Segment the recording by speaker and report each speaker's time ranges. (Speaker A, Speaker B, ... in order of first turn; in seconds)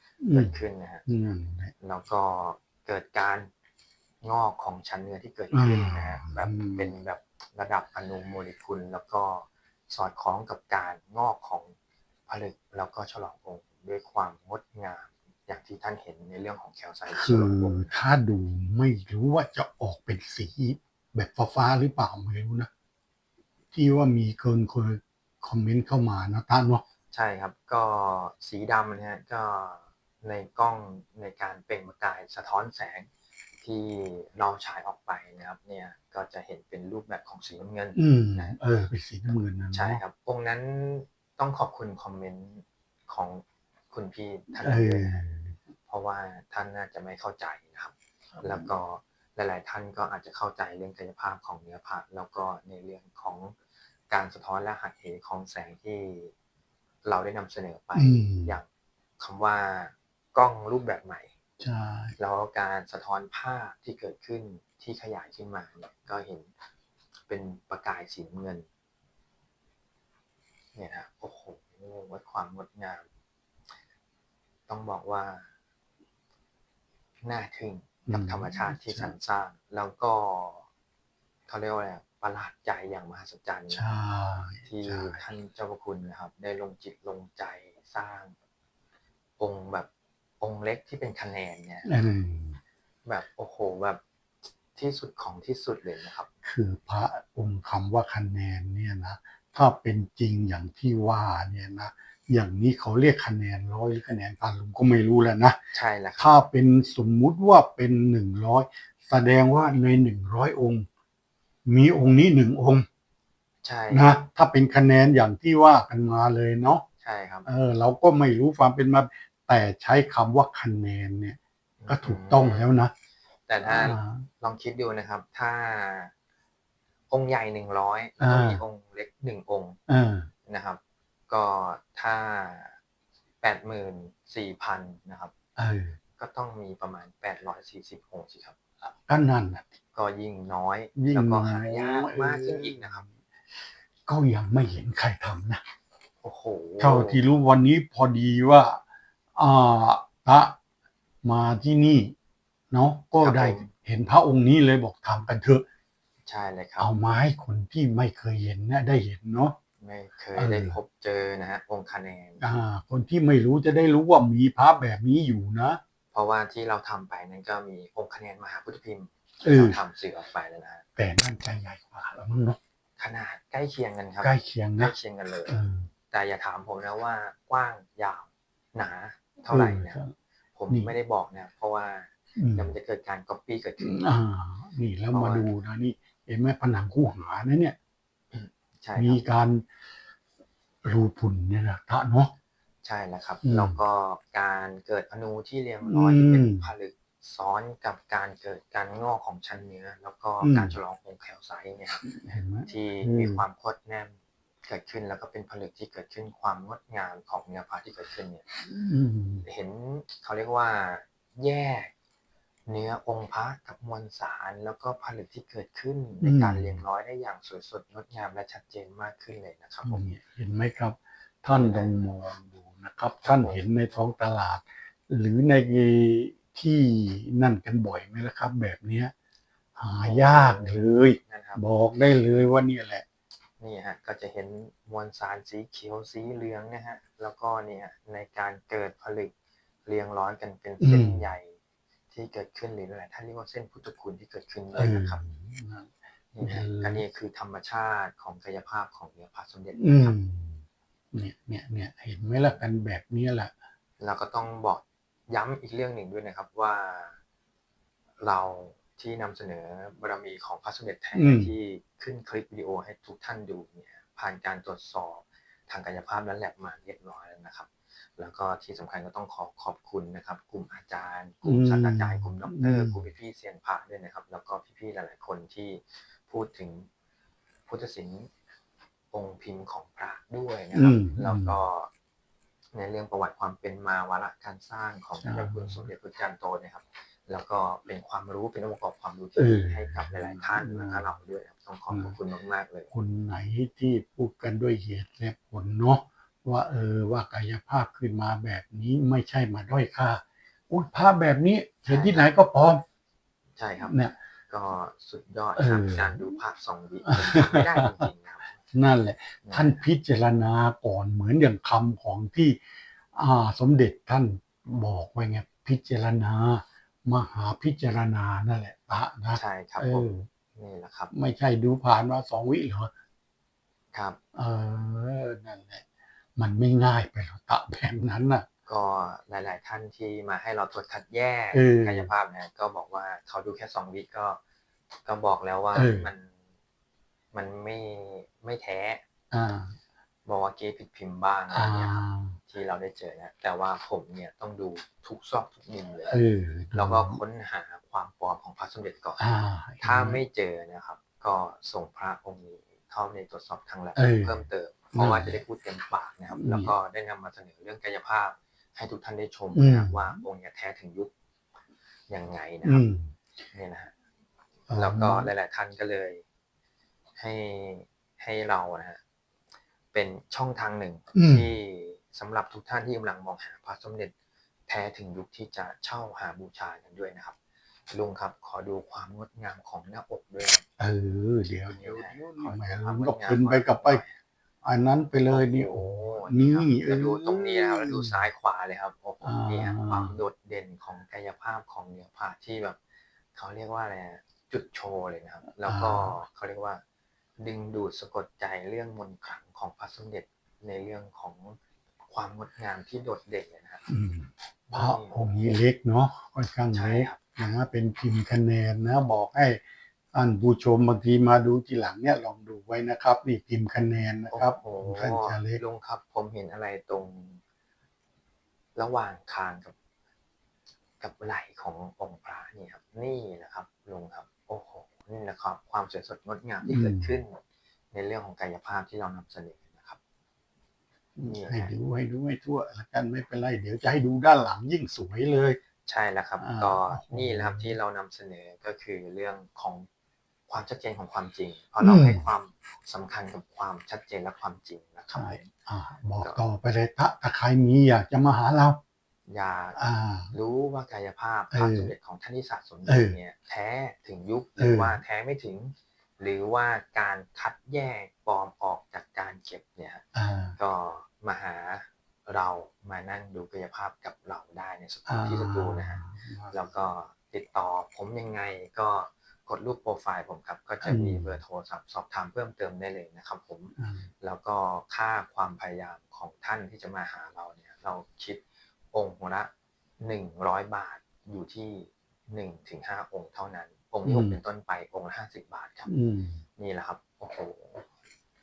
Speaker A: 0.2-1.7, 5.5-7.0, 17.1-22.7, 23.7-26.8, 38.0-40.0, 44.5-45.6, 48.4-48.7, 58.0-58.6, 61.6-62.1, 78.1-79.1, 83.7-85.2, 91.8-92.6, 96.4-105.6, 106.2-110.9, 111.7-112.9, 113.9-116.8, 117.5-122.9, 123.6-124.3, 128.2-128.6, 129.9-130.3, 135.6-136.0, 138.8-139.8, 140.9-143.1, 144.1-145.6, 146.8-148.8, 149.4-150.6, 151.2-152.2, 152.7-155.7, 156.8-159.6, 160.4-160.8, 162.4-165.8, 169.4-169.8, 171.0-172.6, 174.2-174.9, 175.5-175.9, 179.5-180.1, 182.4-182.8, 183.8-187.8, 189.0-189.6, 190.8-192.3, 193.4-193.8, 195.8-196.7, 200.4-200.8, 202.0-203.4, 208.6-209.5, 216.2-216.8, 219.8-229.1, 229.8-233.1, 240.8-241.3, 244.8-247.0, 249.8-253.5, 261.1-261.5, 271.4-273.1, 280.7-281.6, 285.2-285.9, 289.4-291.1, 291.9-292.2, 292.9-302.8, 305.6-306.2, 307.0-308.1, 308.7-312.6, 313.1-320.3, 321.1-322.9, 324.4-325.9, 326.4-328.5, 331.5-332.1, 335.7-336.1, 339.3-339.8, 341.5-342.4, 346.1-347.2, 349.2-350.2, 354.0-355.4, 356.3-356.7, 359.5-360.2, 362.6-363.2, 364.7-365.3, 371.1-371.5, 380.8-384.0, 384.6-388.2, 389.2-390.2, 395.6-396.2, 403.9-409.6, 410.1-415.6, 426.7-427.2, 431.2-435.6, 436.4-437.7, 441.8-442.3, 445.1-448.8, 449.8-450.3, 451.5-451.9, 452.9-453.2, 454.6-455.0, 460.1-460.6, 465.1-466.6, 470.8-471.4, 473.8-474.1, 484.1-484.4, 485.9-486.4
Speaker B: 0.3-1.1, 1.8-3.5, 4.2-11.7, 12.3-17.9, 27.1-33.1, 33.6-38.5, 39.7-45.2, 45.9-53.5, 54.1-56.3, 57.0-58.7, 59.2-61.3, 62.2-66.5, 67.3-68.7, 70.7-73.0, 74.7-75.5, 77.2-80.7, 81.5-83.8, 84.7-88.3, 89.4-89.9, 90.4-91.9, 93.0-94.0, 94.8-96.3, 105.7-106.3, 113.6-114.2, 117.0-117.5, 121.8-122.7, 123.5-126.1, 127.1-129.8, 130.5-132.8, 133.4-135.3, 136.2-138.6, 139.9-143.0, 146.2-147.2, 153.2-153.7, 156.2-156.9, 159.8-162.4, 166.1-170.8, 173.0-175.5, 176.1-180.0, 180.6-184.1, 185.1-185.5, 188.3-189.2, 192.8-202.0, 202.7-208.4, 209.4-211.9, 212.7-220.1, 221.5-221.9, 223.2-223.6, 230.0-231.6, 233.6-239.3, 239.9-241.6, 242.1-245.2, 246.3-250.2, 254.0-257.2, 258.2-276.9, 277.7-278.3, 279.1-281.9, 282.7-292.9, 301.9-302.3, 303.6-303.9, 304.5-308.5, 309.4-309.8, 319.4-321.1, 323.9-324.2, 328.7-334.4, 335.1-336.3, 337.3-339.0, 340.3-342.0, 342.5-346.2, 346.7-349.2, 349.8-361.1, 362.1-362.8, 363.5-363.9, 364.8-366.2, 367.2-369.0, 369.9-374.1, 374.7-377.4, 377.9-380.6, 381.7-384.2, 385.2-392.8, 393.4-396.8, 397.4-401.6, 402.1-403.8, 404.7-405.5, 406.7-407.2, 414.3-417.4, 418.8-419.8, 421.0-427.4, 427.9-430.0, 431.3-431.8, 435.9-439.9, 440.5-445.5, 449.3-449.8, 450.3-460.0, 460.6-485.9, 486.6-487.9